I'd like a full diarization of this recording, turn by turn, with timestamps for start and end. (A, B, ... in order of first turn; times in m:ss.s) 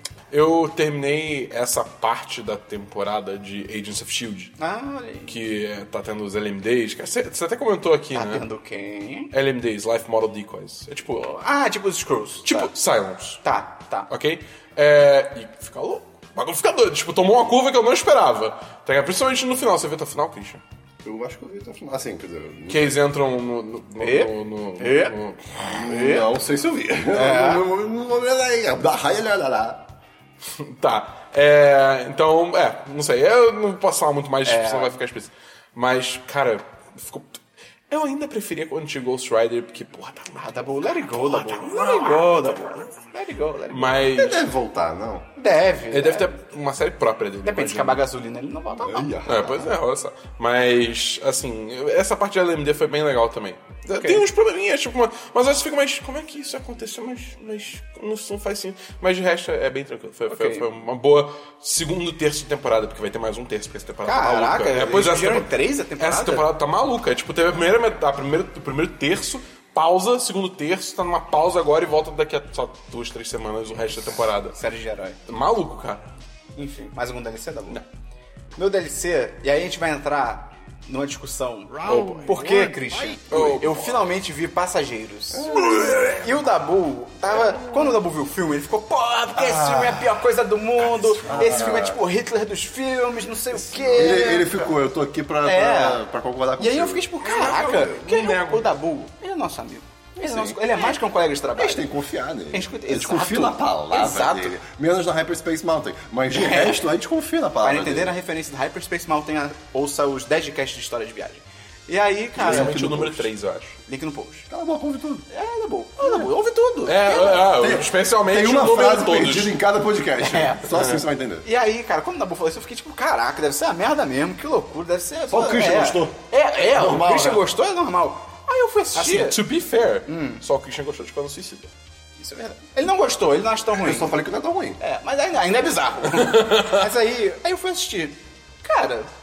0:00.3-0:04.5 A
0:04.6-0:05.4 B
0:05.2-0:08.5 A
0:08.1-0:09.3 B
0:09.3-0:11.4 A
0:11.2-0:12.7 B
0:12.4-0:13.4 A
0:13.4-0:14.1 B
0:14.1-0:20.6 A
0:21.0-0:22.9 C
0:22.7-0:25.6 A
0:24.0-0:25.1 B
0:25.6-0:29.9 C
0:25.7-0:26.2 B
0:27.1-0:27.6 B
0:30.4-0:42.6 A
0:34.4-0:35.0 B
0:40.4-0:44.1 B
0:43.7-0:44.4 A
0:44.1-0:45.3 C
0:45.4-0:46.3 B
0:45.9-0:48.0 A
0:47.4-0:49.2 B
0:48.8-0:49.8 C
0:49.2-1:14.6 A
0:53.9-0:54.2 B
1:00.3-1:00.6 B
1:04.0-1:06.5 B
1:14.5-1:15.2 B
1:15.3-1:16.1 A
1:16.6-1:17.8 B
1:18.6-1:34.7 B
1:21.8-1:24.0 A
1:25.3-1:26.3 C
1:27.3-1:28.0 C
1:29.4-1:30.1 C
1:31.2-1:32.0 C
1:31.2-1:31.6 A
1:33.8-1:37.8 C
1:35.4-1:36.0 B
1:36.6-1:41.9 B
1:37.2-1:38.6 A
1:40.2-1:40.9 C
1:41.6-1:48.2 C
1:42.5-1:44.6 B
1:46.3-1:46.8 B
1:47.6-1:52.9 B
1:52.4-1:53.3 C
1:52.4-1:53.8 A
1:53.9-1:54.5 B
1:54.5-1:55.2 C
1:55.3-1:57.5 B
1:56.0-1:56.3 C
1:56.9-1:59.6 A
1:57.4-2:01.5 C
2:00.2-2:00.9 B
2:00.7-2:01.0 A
2:01.4-2:09.4 B
2:05.3-2:07.4 C
2:09.0-2:11.7 A
2:10.1-2:10.4 B
2:12.2-2:14.2 B
2:13.7-2:14.8 C
2:14.8-2:19.1 B
2:16.1-2:16.8 A